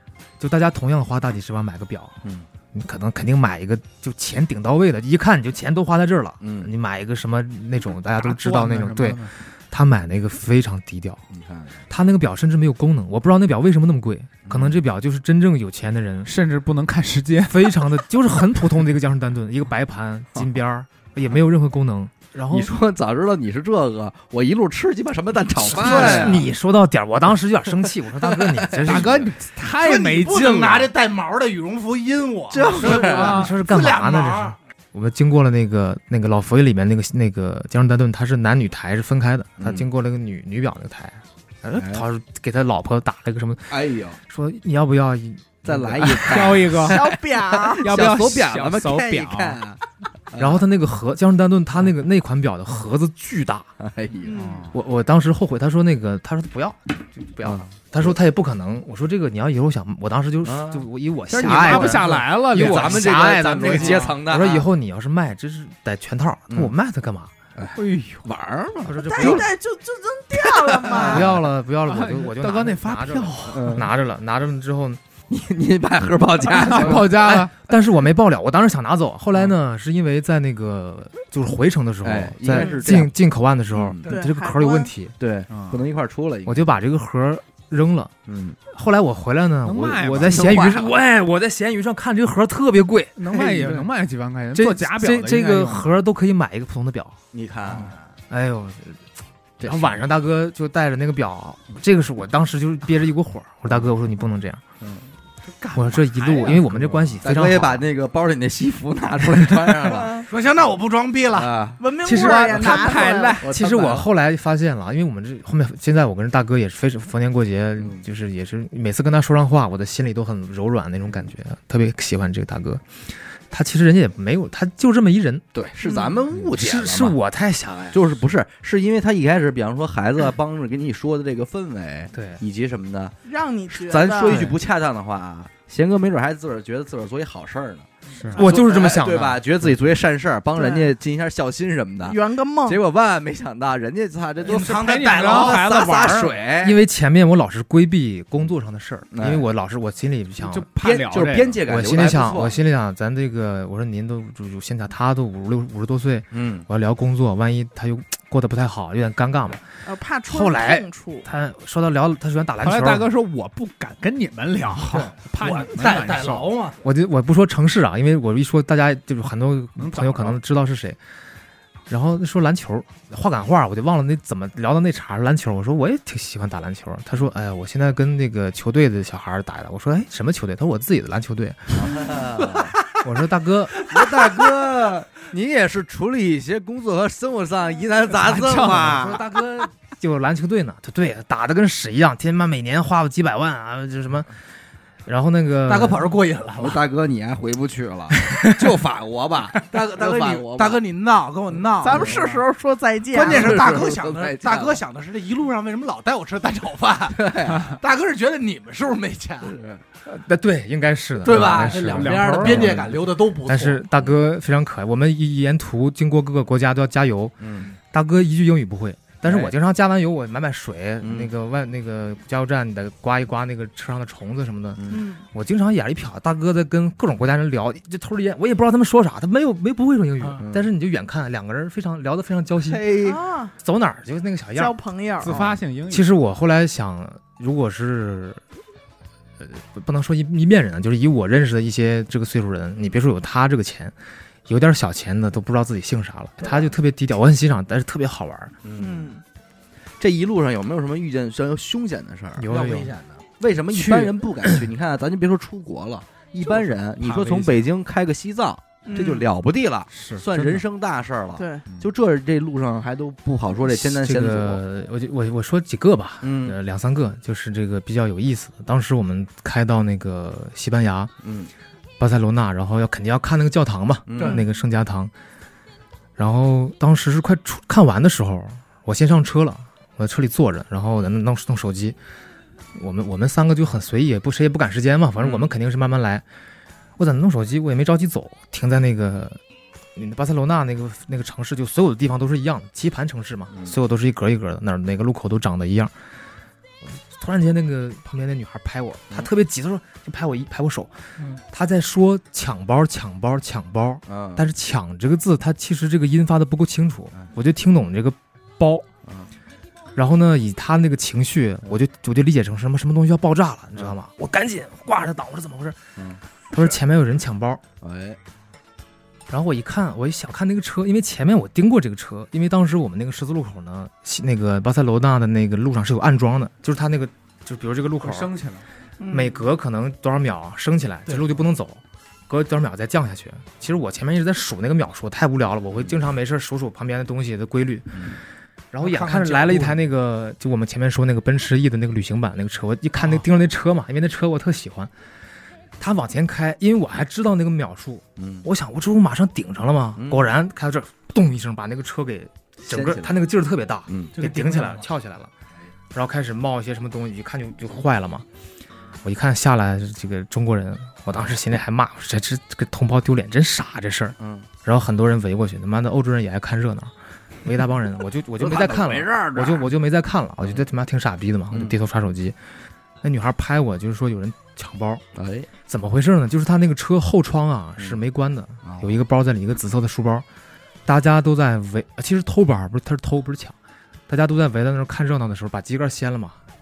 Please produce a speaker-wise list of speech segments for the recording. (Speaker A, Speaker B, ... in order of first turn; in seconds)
Speaker A: 0.4-2.2, 2.7-11.2, 11.9-16.3, 17.4-22.7, 25.6-29.3, 32.9-46.4, 50.4-53.7, 54.7-67.3, 68.8-69.5, 70.9-75.0, 76.7-85.1, 86.5-88.1, 88.7-93.4, 94.5-97.2, 98.3-99.0, 99.6-104.6, 105.7-107.9, 109.3-109.8, 112.0-125.5, 126.5-128.0, 132.1-132.4, 138.3-139.4, 146.6-150.7, 151.6-159.7, 160.3-163.1, 166.8-171.0, 171.9-182.2, 182.9-183.8, 188.6-194.3, 195.1-196.1, 198.2-198.6, 210.0-232.8, 233.6-238.4, 239.4-243.9, 244.4-248.5, 252.3-252.9, 253.7-254.6, 263.6-271.1, 272.0-275.1, 276.2-282.0, 282.7-286.2, 287.0-289.4, 289.9-295.9, 296.9-308.9, 309.9-315.8, 316.5-317.6, 319.3-328.3, 329.1-338.1, 338.7-344.9, 345.8-355.3, 355.9-358.2, 359.0-372.4, 373.0-375.0, 375.7-380.2, 380.9-383.6, 384.1-386.4
Speaker B: 6.4-6.7, 11.3-11.8, 14.4-14.8, 22.5-26.4, 28.2-29.1, 32.5-33.4, 39.6-39.9, 41.7-42.0, 43.7-44.2, 45.6-50.6, 53.8-54.4, 57.4-57.7, 60.4-64.7, 67.5-69.5, 70.4-71.4, 73.5-73.9, 75.3-77.3, 82.0-83.1, 83.7-84.1, 85.2-86.8, 88.3-88.6, 90.2-90.8, 93.3-93.8, 97.3-98.0, 99.6-100.0, 104.8-105.1, 107.2-110.2, 111.3-111.8, 113.4-114.1, 117.8-118.0, 125.5-127.2, 127.9-133.1, 133.7-146.8, 149.1-149.4, 150.8-152.6, 156.3-156.7, 181.7-182.7, 183.8-189.2, 196.6-200.8, 201.9-202.3, 203.2-204.8, 207.1-207.8, 209.4-209.8, 217.4-217.7, 219.2-219.5, 221.0-221.3, 224.8-225.0, 230.4-230.7, 232.6-233.2, 248.6-249.1, 250.0-252.5, 253.4-264.6, 266.2-266.6, 271.2-271.5, 274.1-274.4, 285.2-285.5, 304.1-304.5, 317.8-318.2, 337.9-338.2, 348.2-348.4, 350.0-350.3, 352.6-353.2, 353.9-354.2, 364.2-364.5, 368.4-369.7, 375.1-375.5, 378.6-379.0
Speaker C: 8.2-9.3, 16.2-17.9, 25.9-26.4, 28.8-30.9, 32.8-33.5, 46.0-47.0, 47.8-49.6, 54.3-54.7, 61.3-64.2, 67.7-68.2, 71.8-73.8, 76.5-77.5, 85.5-85.8, 89.6-90.9, 93.2-95.9, 106.0-107.2, 112.1-113.5, 138.2-138.4, 144.4-146.4, 150.4-151.6, 162.6-166.5, 169.8-170.4, 188.2-189.2, 211.3-212.8, 235.2-236.1, 257.0-257.7, 259.9-260.6, 328.0-328.6
Speaker D: 25.7-26.4, 29.7-34.5, 110.2-111.5, 144.4-145.8, 165.4-166.8, 195.7-196.8, 199.6-202.2, 203.1-209.6, 211.2-213.8, 252.5-253.2, 338.8-339.8, 354.2-354.8
Speaker E: 46.8-48.0, 54.2-54.7, 69.0-71.3, 84.0-84.9, 109.9-110.3, 111.8-113.4, 125.8-126.2, 133.2-134.5, 140.5-140.9, 142.0-142.8, 159.8-161.3, 201.8-203.7, 224.9-225.2, 233.0-233.5, 234.5-235.4, 248.7-249.2, 258.9-259.2, 261.4-261.6, 329.0-329.4